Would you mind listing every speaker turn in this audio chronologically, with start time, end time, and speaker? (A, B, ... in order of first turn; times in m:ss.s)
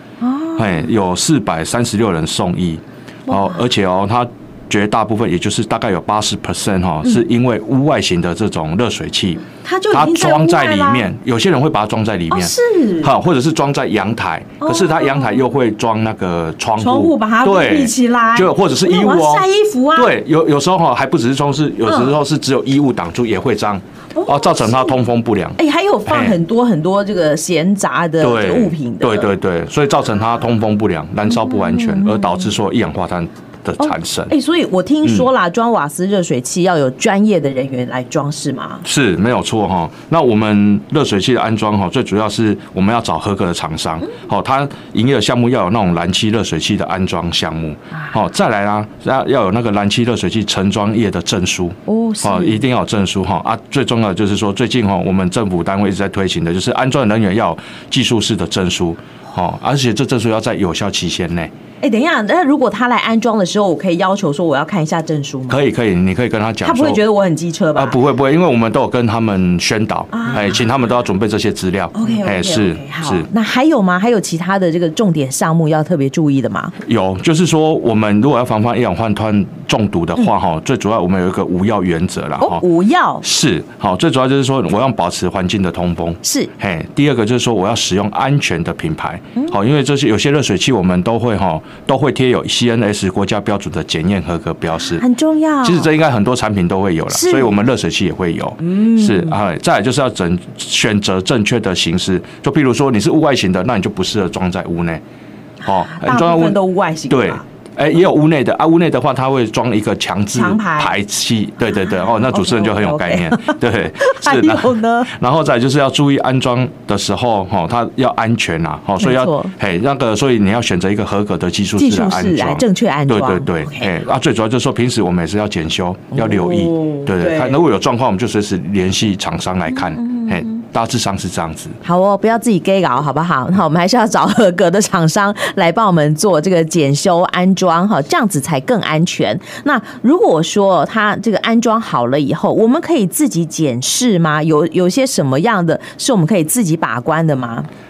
0:00.2-0:00.8 A
0:00.6-0:26.4 B
0:03.3-0:03.6 A
0:09.6-0:11.1 A
0:12.3-0:13.1 A
0:14.6-0:15.4 A
0:16.8-0:20.1 A
0:21.8-0:22.2 A
0:24.1-0:24.9 A
0:25.6-0:29.3 A
0:28.2-0:34.3 B
0:31.3-0:32.5 A
0:33.8-0:38.8 A
0:35.0-0:35.3 B
0:38.8-1:01.5 B
0:51.9-0:52.6 A
1:01.8-1:05.6 A
1:05.5-1:07.0 B
1:06.6-1:08.0 A
1:07.8-1:13.3 B
1:10.1-1:10.6 A
1:11.9-1:16.7 A
1:16.8-1:22.6 B
1:22.4-1:23.2 A
1:23.2-1:35.0 B
1:26.2-1:26.5 A
1:34.9-1:35.9 A
1:35.6-1:45.0 B
1:37.1-1:37.6 A
1:38.6-1:39.4 A
1:45.6-1:46.6 B
1:45.6-1:47.4 A
1:47.1-2:11.8 B
1:50.3-1:50.9 A
1:51.7-1:55.1 A
1:59.0-1:59.5 A
2:01.8-2:04.0 A
2:06.1-2:07.6 A
2:09.7-2:10.6 A
2:11.8-2:27.7 A